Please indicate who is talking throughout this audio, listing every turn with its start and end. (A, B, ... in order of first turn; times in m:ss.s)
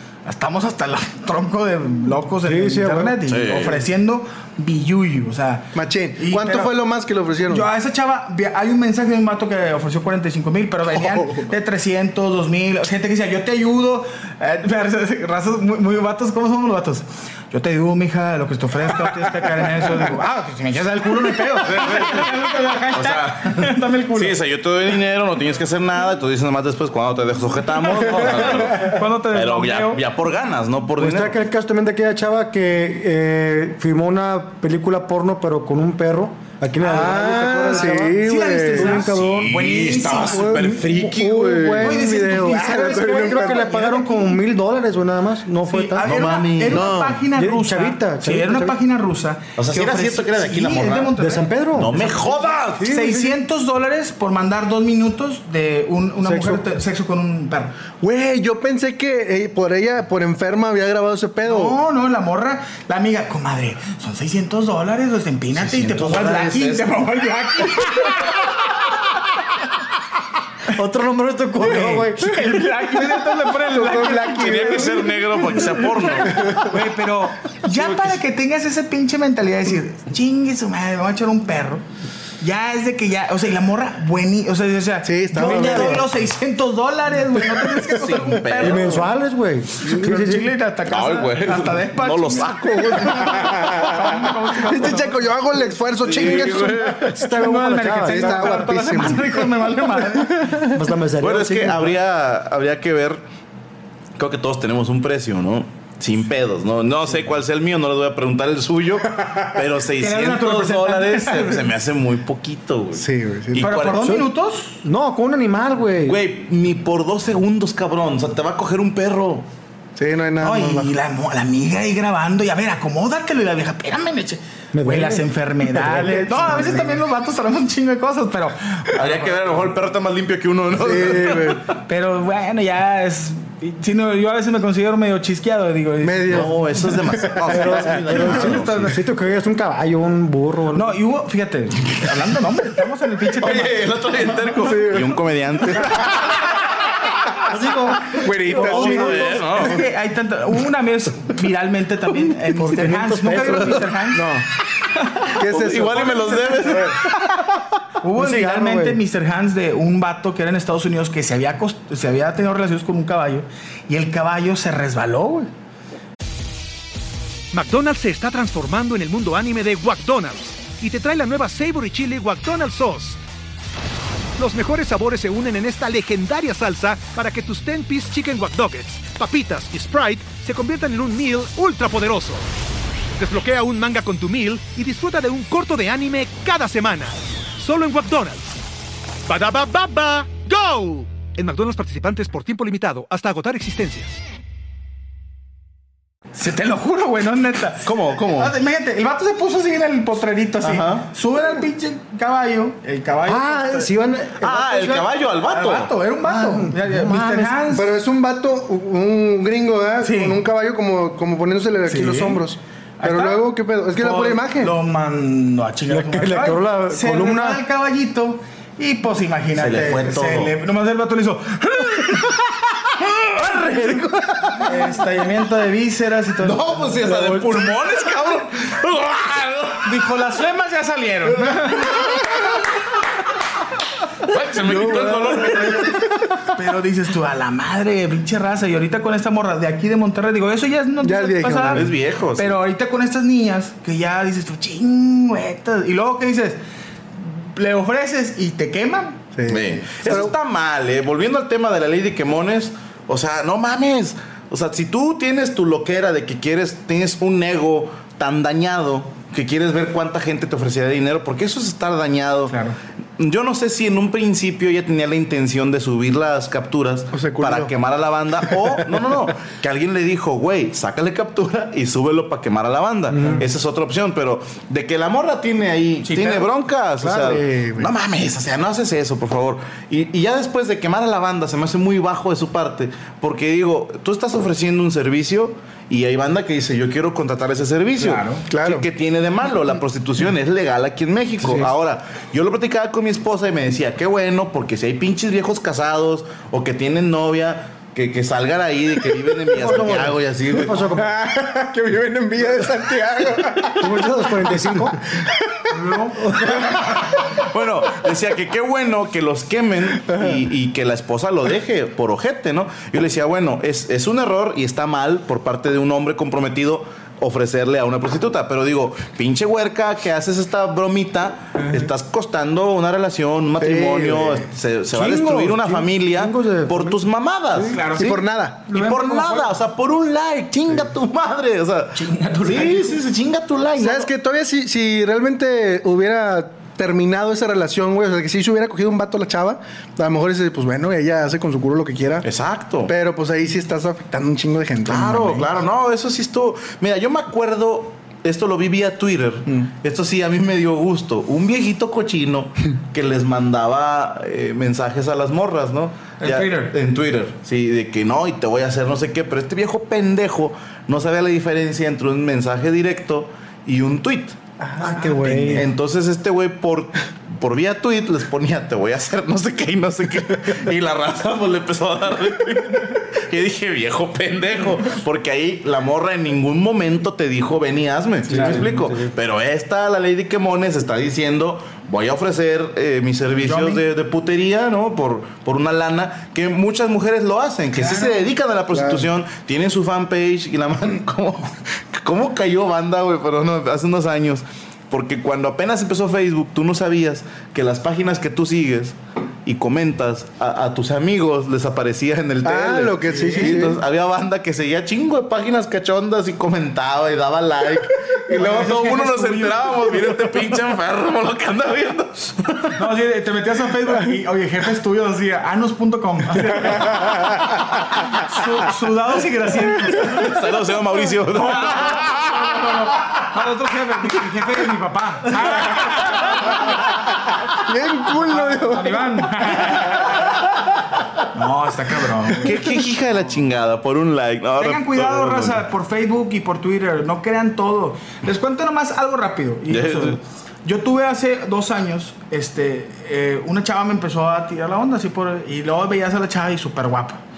0:00.2-0:06.7 A
0:02.4-0:03.1 B
0:03.3-0:03.8 C
0:05.7-0:07.7 D
0:07.5-0:24.4 A
0:21.6-0:31.4 C
0:28.1-0:30.0 A
0:31.0-0:39.7 B
0:36.8-0:40.5 A
0:36.8-0:39.1 D
0:39.1-0:41.9 C
0:40.1-0:43.8 D
0:40.5-0:40.8 B
0:41.6-0:46.1 B
0:41.8-0:44.2 A
0:45.7-0:57.7 A
0:46.0-0:47.2 C
0:46.7-0:48.7 B
0:49.6-0:51.2 C
0:51.2-0:51.9 B
0:51.7-0:52.9 C
0:52.8-0:53.2 B
0:56.2-0:56.6 B
0:58.0-1:01.8 D
1:01.4-1:08.6 A
1:05.6-1:06.9 C
1:10.7-1:12.6 B
1:11.6-1:21.8 A
1:13.6-1:15.1 D
1:14.4-1:16.5 C
1:16.4-1:16.7 D
1:22.4-1:29.0 A
1:25.0-1:26.0 D
1:25.3-1:26.0 B
1:27.6-1:27.9 D
1:27.9-1:29.0 C
1:28.6-1:30.5 B
1:29.8-1:35.3 A
1:30.9-1:33.6 C
1:34.6-1:36.8 D
1:36.0-1:37.1 C
1:36.2-1:40.7 A
1:36.9-1:39.0 B
1:38.0-1:39.5 D
1:40.1-1:40.7 D
1:40.7-1:42.0 B
1:41.2-1:43.2 C
1:44.2-1:54.2 C
1:50.0-1:51.6 A
1:53.0-1:53.7 D
1:53.6-1:54.8 A
1:54.0-1:54.3 B
1:54.8-1:56.2 B
1:56.0-1:59.4 C
2:00.0-2:00.9 D
2:00.4-2:09.4 A
2:04.7-2:06.8 B
2:05.9-2:06.8 D
2:08.9-2:11.6 C
2:10.7-2:11.6 D
2:11.9-2:16.5 A
2:16.0-2:18.0 D
2:16.3-2:18.9 C
2:17.5-2:21.0 B
2:18.1-2:19.0 A
2:20.7-2:23.8 A
2:23.4-2:26.4 C
2:24.6-2:25.2 D
2:27.5-2:29.3 B
2:28.1-2:29.4 D
2:28.4-2:29.8 C
2:29.0-2:34.3 A
2:32.5-2:34.4 B
2:35.4-2:37.0 D
2:35.4-2:37.1 C
2:36.0-2:37.1 A
2:38.0-2:45.5 A
2:38.2-2:39.0 B
2:47.5-2:53.2 E
2:54.4-3:02.4 E
3:03.2-3:08.4 E
3:09.3-3:14.2 E
3:16.3-3:23.9 A
3:17.8-3:18.5 C
3:20.6-3:21.1 C
3:23.2-3:25.1 B
3:24.4-3:25.9 C
3:25.4-3:28.0 A
3:26.2-3:27.6 B
3:27.7-3:34.7 D
3:30.0-3:30.4 A
3:31.9-3:32.4 A
3:33.0-3:33.4 A
3:34.0-3:42.5 A
3:35.9-3:37.6 B
3:39.5-3:40.5 C
3:43.0-3:44.7 C
3:44.6-3:47.3 A
3:46.4-3:50.0 C
3:49.8-3:52.2 A
3:54.3-3:56.0 C
3:54.5-3:56.5 D
3:56.6-4:06.6 A
4:01.0-4:01.9 D
4:01.7-4:02.6 C
4:07.2-4:09.2 A
4:09.4-4:10.3 D
4:09.5-4:22.6 C
4:22.5-4:22.8 A
4:23.2-5:00.8 C
4:27.1-4:27.8 D
4:28.3-4:29.3 D
4:33.1-4:33.4 B
4:36.0-4:36.5 A
4:37.0-4:37.9 D
4:48.0-4:48.4 A
4:48.5-4:48.9 D
4:51.4-4:51.7 B
4:59.5-5:01.1 B
5:00.8-5:05.3 D
5:03.8-5:05.0 B
5:05.7-5:06.4 A
5:06.2-5:06.5 B
5:06.4-5:06.9 D
5:07.2-5:27.8 C
5:10.1-5:10.4 D
5:23.6-5:24.5 D
5:24.9-5:27.0 B
5:27.7-5:29.5 A
5:28.0-5:28.7 D
5:28.7-5:34.1 C
5:32.0-5:33.0 A
5:33.8-5:42.3 D
5:42.2-5:42.9 C
5:42.9-5:45.5 D
5:44.8-6:04.4 C
5:56.2-5:56.7 A
6:04.6-6:05.6 D
6:04.8-6:05.6 B
6:05.0-6:05.6 A
6:05.2-6:52.8 C
6:18.3-6:19.1 B
6:18.3-6:18.7 A
6:23.4-6:23.8 A
6:27.7-6:28.2 A
6:28.7-6:29.0 D
6:42.4-6:43.8 D
6:43.1-6:43.6 A
6:48.3-6:49.9 A
6:52.8-6:57.4 A
6:58.2-7:00.3 A
7:00.0-7:02.3 C
7:01.3-7:06.6 A
7:07.5-7:10.1 D
7:08.1-7:10.3 A
7:11.3-7:12.6 A
7:12.4-7:15.6 C
7:14.6-7:27.2 A
7:19.7-7:20.2 C